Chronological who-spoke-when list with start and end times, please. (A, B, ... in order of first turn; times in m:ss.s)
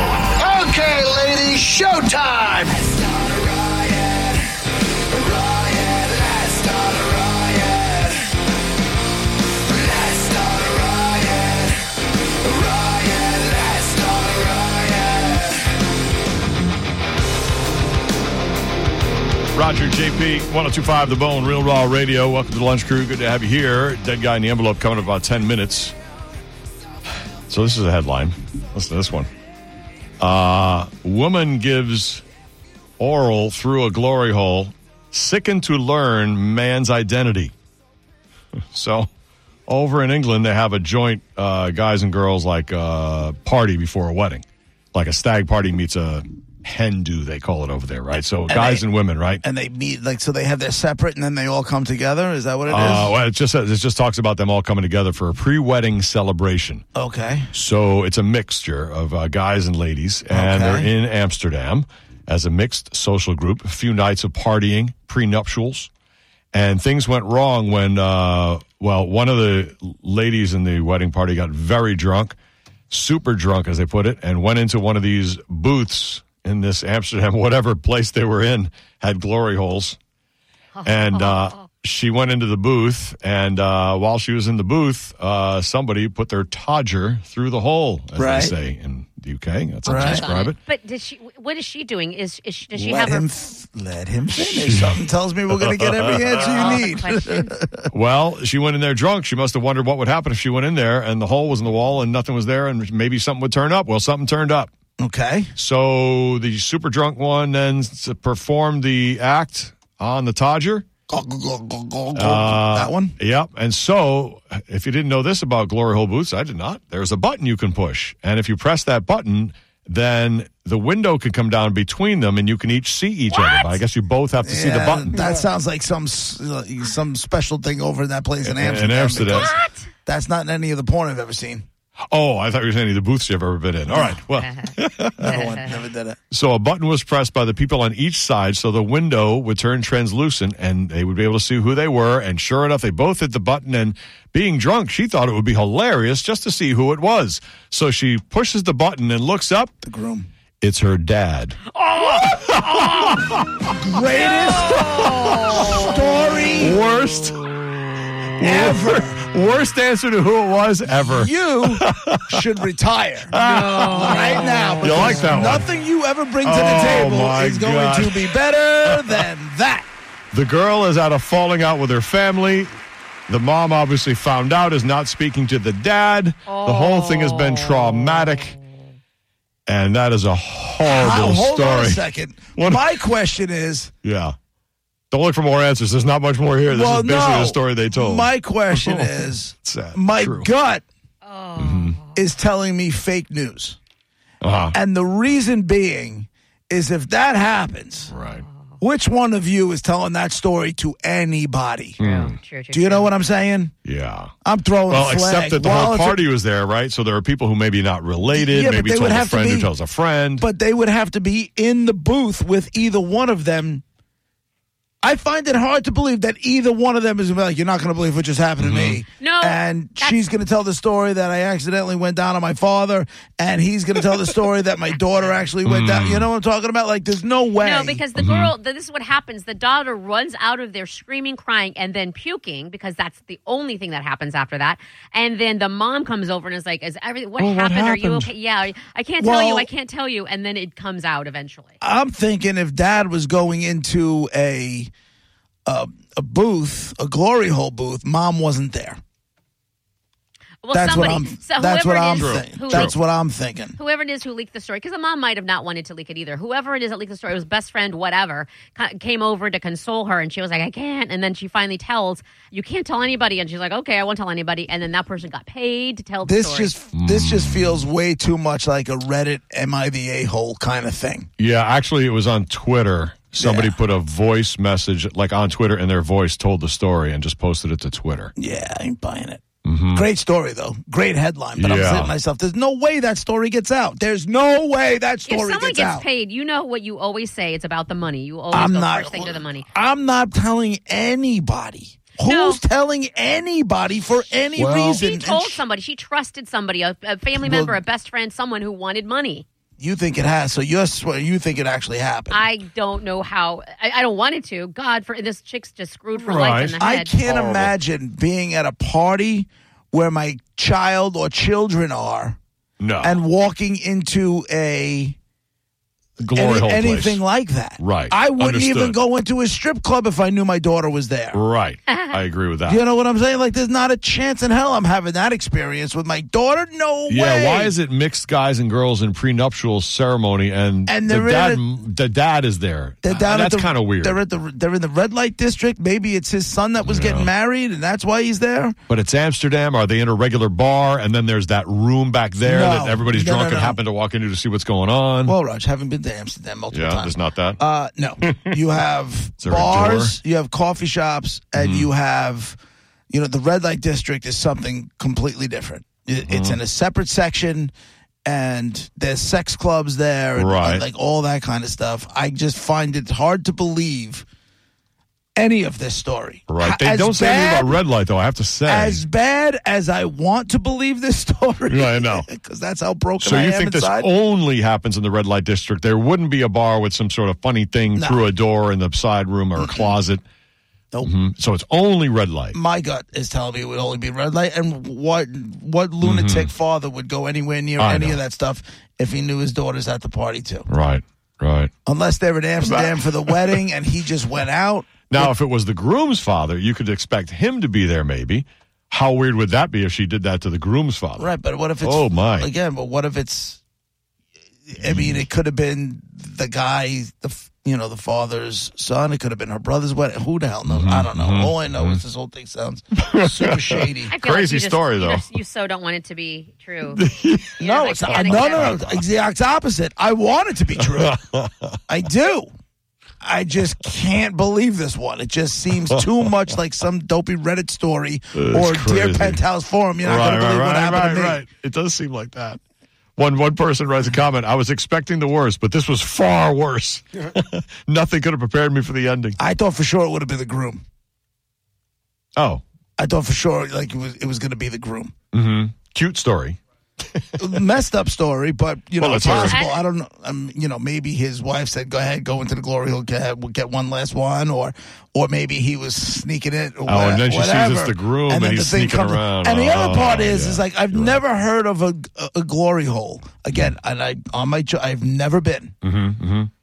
0:00.6-0:02.1 A
0:02.7-0:04.2 A
0:05.3-0:07.8 A
0:09.8-0:11.3 A
0:12.6-0:15.4 A
0:19.6-0:26.0 B
0:27.5-0:29.3 B
0:30.2-0:32.2 B
0:33.0-0:37.5 B
0:38.7-0:39.1 B
0:39.7-0:49.4 B
0:48.5-0:48.9 A
0:49.4-0:53.2 A
0:52.7-0:56.8 B
0:57.0-0:57.5 A
0:57.5-1:05.9 B
1:00.3-1:00.9 A
1:06.5-1:12.4 B
1:12.9-1:20.0 B
1:20.7-1:21.7 C
1:20.8-1:30.6 B
1:28.2-1:28.6 A
1:29.8-1:30.3 A
1:29.9-1:33.3 C
1:32.8-1:37.8 A
1:34.4-1:36.8 B
1:36.4-1:37.5 C
1:37.9-1:44.7 B
1:45.0-1:45.5 A
1:45.6-1:50.8 B
1:51.1-1:53.2 A
1:52.2-2:05.2 B
2:03.3-2:03.8 C
2:04.4-2:11.7 A
2:08.4-2:09.5 B
2:09.3-2:09.9 C
2:12.1-2:15.4 B
2:13.9-2:14.2 A
2:14.3-2:14.7 C
2:15.2-2:16.2 A
2:15.2-2:15.8 C
2:16.3-2:29.7 B
2:29.8-2:30.3 A
2:30.6-2:33.7 B
2:33.8-2:36.8 A
2:34.6-2:35.9 C
2:34.7-2:35.8 B
2:36.6-2:37.5 B
2:38.4-2:42.4 B
2:38.4-2:39.2 A
2:41.1-2:49.9 A
2:43.3-2:45.7 B
2:43.3-2:45.1 C
2:46.4-2:49.2 B
2:50.3-2:52.8 B
2:53.3-2:58.6 B
2:56.5-2:57.9 C
2:59.7-3:02.0 B
3:00.9-3:03.9 A
3:02.6-3:03.0 B
3:04.0-3:04.4 B
3:05.1-3:09.1 B
3:06.7-3:10.8 A
3:09.6-3:10.5 B
3:11.2-3:12.2 C
3:11.6-3:12.0 B
3:12.2-3:13.8 A
3:14.4-3:14.8 B
3:14.7-3:18.1 A
3:18.1-3:18.4 B
3:18.8-3:22.0 A
3:22.0-3:23.1 C
3:22.0-3:22.4 B
3:22.7-3:23.7 A
3:23.8-3:24.3 B
3:24.4-3:26.2 A
3:24.9-3:30.5 B
3:28.4-3:29.7 A
3:30.4-3:33.8 A
3:35.0-3:48.0 A
3:38.6-3:39.0 B
3:39.2-3:40.2 C
3:45.6-3:46.3 B
3:47.6-4:01.8 C
3:48.2-3:48.5 B
3:57.4-3:58.3 A
3:59.2-3:59.7 A
4:01.8-4:04.9 A
4:05.7-4:09.0 A
4:10.6-4:13.0 C
4:10.7-4:13.8 A
4:12.2-4:13.0 B
4:13.8-4:26.7 C
4:26.2-4:31.3 A
4:26.9-4:27.8 B
4:31.4-4:38.3 B
4:33.4-4:33.8 A
4:38.4-4:46.1 A
4:39.6-4:40.1 B
4:41.6-4:42.1 B
4:45.3-4:49.7 C
4:48.5-4:55.6 A
4:52.2-4:52.6 C
4:54.6-4:55.0 B
4:54.7-4:59.4 C
4:57.4-4:57.8 A
4:59.8-5:02.5 A
5:02.3-5:07.2 C
5:06.3-5:07.7 B
5:06.8-5:12.4 A
5:12.8-5:13.2 B
5:13.0-5:15.2 A
5:16.2-5:17.2 B
5:16.3-5:21.4 A
5:17.8-5:19.0 B
5:21.3-5:22.8 B
5:21.9-5:22.2 C
5:22.7-5:27.8 A
5:27.1-5:34.2 B
5:30.9-5:31.7 A
5:33.0-5:38.8 A
5:36.9-5:37.3 B
5:38.9-5:45.4 B
5:42.4-5:43.8 A
5:45.2-5:52.6 A
5:46.7-5:47.6 B
5:49.4-5:50.2 B
5:51.6-5:51.9 B
5:53.1-5:57.7 A
5:56.2-5:56.6 B
5:58.2-6:04.2 A
6:00.4-6:00.9 B
6:05.4-6:07.8 A
6:06.5-6:09.0 B
6:08.7-6:14.1 A
6:11.7-6:12.3 B
6:13.2-6:20.2 B
6:18.0-6:18.2 A
6:19.6-6:20.0 A
6:21.0-6:22.6 B
6:22.5-6:30.7 A
6:26.0-6:26.5 B
6:27.8-6:28.2 B
6:30.7-6:31.7 B
6:31.9-6:35.3 A
6:32.6-6:33.6 B
6:35.1-6:42.5 B
6:41.2-6:43.6 A
6:44.7-6:54.1 A
6:44.9-6:45.2 B
6:50.7-6:52.0 B
6:53.1-6:55.3 B
6:54.1-6:57.0 C
6:57.0-6:59.0 B
6:57.6-6:58.8 C
6:57.6-7:01.2 A
7:00.9-7:01.8 B
7:01.9-7:02.5 A
7:03.2-7:11.4 A
7:08.4-7:09.4 B
7:10.0-7:12.6 B
7:13.2-7:19.4 B
7:19.4-7:20.8 A
7:22.4-7:22.6 B
7:23.0-7:25.1 A
7:25.3-7:26.6 B
7:27.4-7:45.8 A
7:29.0-7:29.6 B
7:29.3-7:29.8 C
7:36.8-7:41.2 B
7:45.8-7:46.5 B